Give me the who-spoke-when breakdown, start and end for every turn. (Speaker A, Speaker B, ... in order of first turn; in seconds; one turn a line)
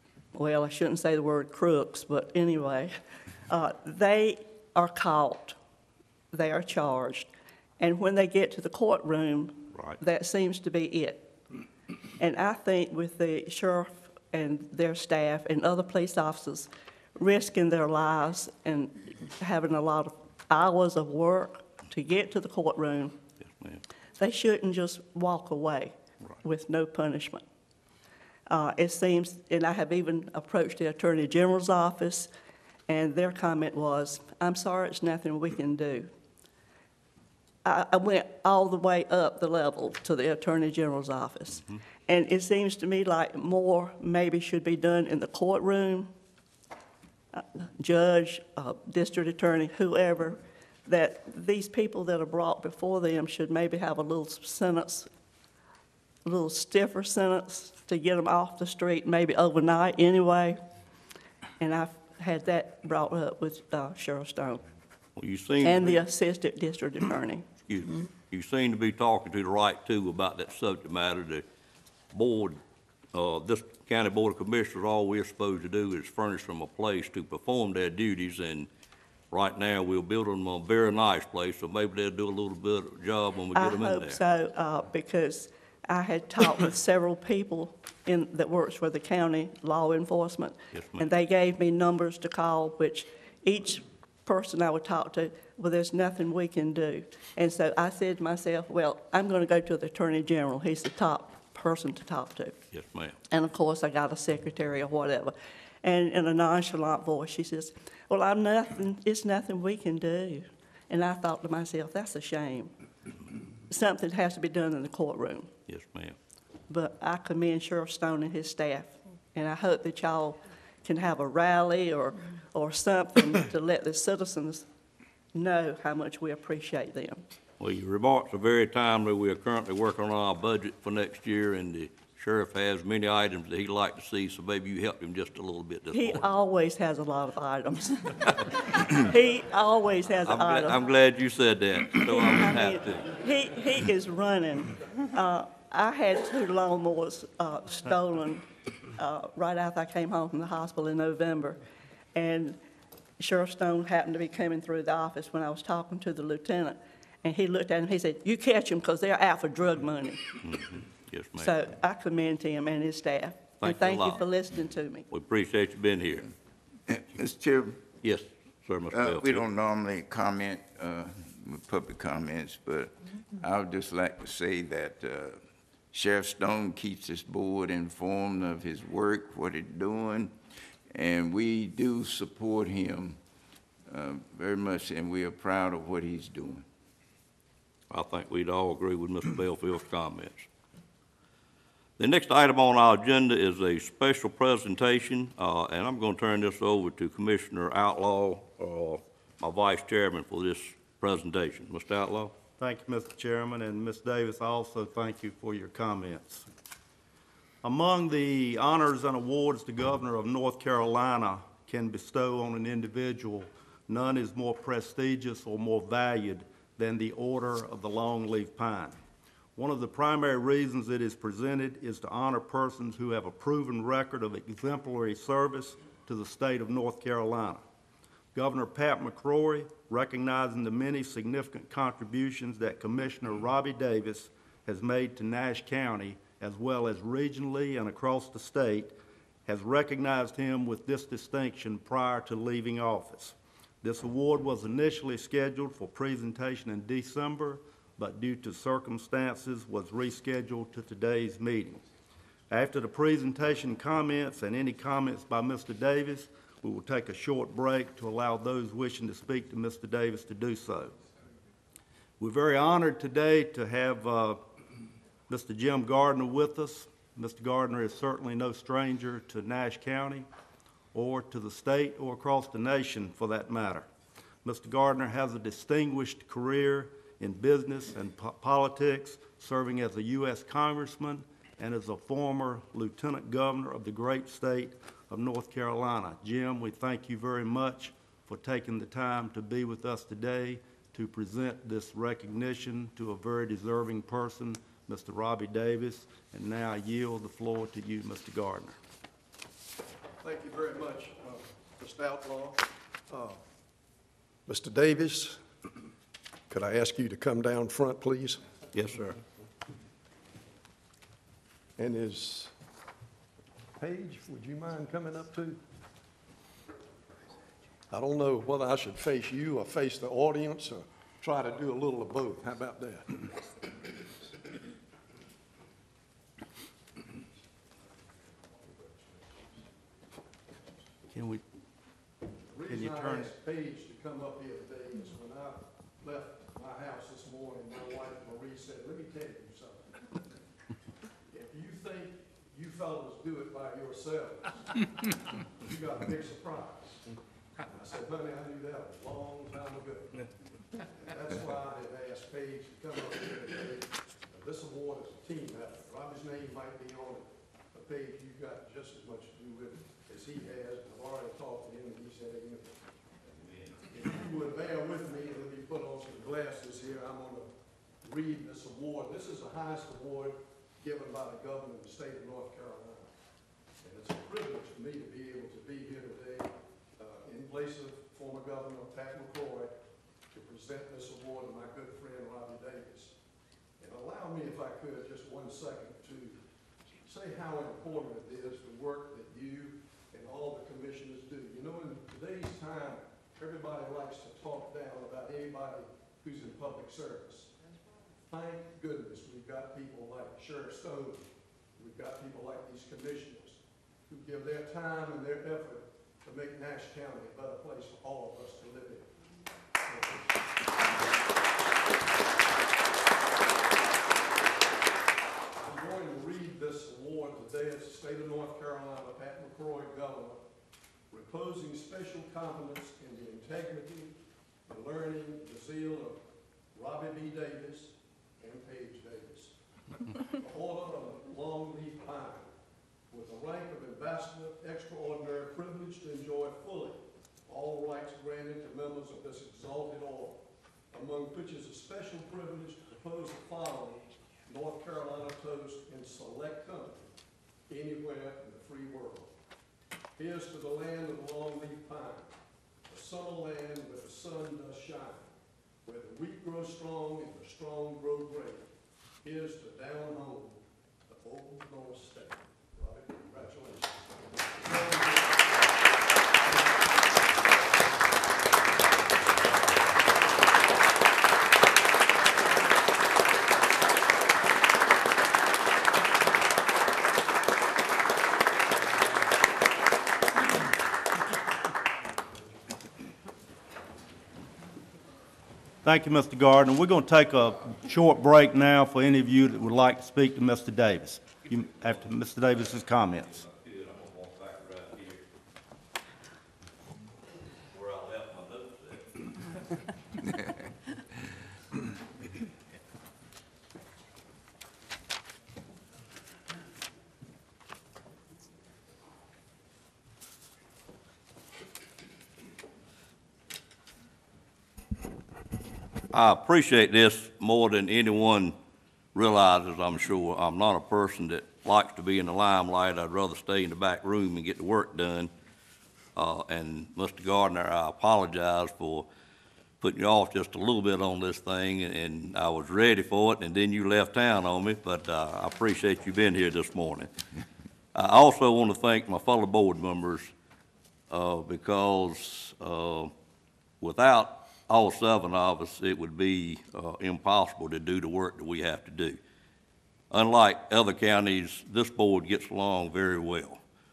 Speaker A: 0.3-5.6
Speaker A: 6.3-11.4
Speaker A: 12.2-23.2
Speaker B: 23.4-23.8
Speaker A: 24.2-27.4
Speaker A: 28.5-32.3
Speaker A: 32.9-36.1
Speaker A: 37.6-46.1
Speaker A: 47.3-55.1
Speaker A: 56.2-60.6
Speaker A: 61.6-64.7
Speaker B: 65.2-66.0
Speaker A: 65.6-67.5
Speaker B: 67.7-71.4
Speaker B: 72.1-72.6
Speaker B: 73.1-78.7
Speaker B: 79.3-84.2
Speaker A: 83.5-102.6
Speaker B: 90.7-91.0
Speaker B: 102.7-103.2
Speaker A: 103.3-112.7
Speaker A: 113.7-115.5
Speaker B: 115.7-116.2
Speaker A: 116.7-124.7
Speaker A: 125.3-127.2
Speaker B: 127.6-136.3
Speaker A: 135.9-140.9
Speaker B: 140.2-143.1
Speaker A: 142.1-151.6
Speaker A: 152.2-152.6
Speaker A: 153.2-160.4
Speaker B: 160.4-161.5
Speaker A: 161.4-165.1
Speaker B: 163.6-164.2
Speaker B: 165.1-166.3
Speaker C: 166.9-167.8
Speaker B: 168.0-169.4
Speaker C: 168.9-175.4
Speaker C: 175.9-180.4
Speaker C: 180.9-183.2
Speaker C: 183.9-186.7
Speaker B: 187.9-190.5
Speaker B: 192.0-202.3
Speaker D: 202.6-206.5
Speaker D: 207.6-219.0
Speaker D: 219.6-227.6
Speaker D: 228.3-238.9
Speaker D: 239.4-251.8
Speaker D: 252.5-260.9
Speaker D: 262.2-264.4
Speaker D: 265.3-270.3
Speaker D: 270.9-273.9
Speaker D: 274.4-298.8
Speaker E: 300.2-303.4
Speaker E: 304.5-305.4
Speaker E: 306.5-308.4
Speaker B: 308.7-309.2
Speaker E: 311.8-312.5
Speaker E: 313.8-315.6
Speaker E: 317.9-323.6
Speaker E: 328.7-329.1
Speaker D: 331.1-331.4
Speaker E: 332.5-340.1
Speaker D: 332.7-333.3
Speaker E: 341.3-350.3
Speaker E: 351.1-362.8
Speaker E: 363.4-367.5
Speaker E: 368.0-373.1
Speaker E: 373.8-379.8
Speaker E: 380.3-383.1
Speaker E: 383.8-386.4
Speaker E: 387.0-397.5
Speaker E: 398.3-409.1
Speaker E: 409.8-410.3
Speaker E: 415.6-420.4
Speaker E: 421.1-426.2
Speaker E: 426.7-429.6
Speaker E: 430.2-432.5
Speaker E: 433.1-447.1
Speaker E: 447.7-449.3
Speaker E: 450.2-452.3
Speaker E: 452.9-455.3
Speaker E: 455.8-458.7
Speaker E: 459.2-464.0
Speaker E: 464.6-466.9
Speaker D: 485.8-493.3
Speaker B: 493.3-495.3
Speaker B: 497.7-499.3
Speaker B: 516.1-518.6
Speaker B: 519.1-525.3
Speaker B: 526.1-529.1
Speaker B: 529.8-537.1
Speaker B: 537.9-540.3
Speaker B: 541.1-543.1
Speaker B: 543.8-549.2
Speaker B: 550.1-553.6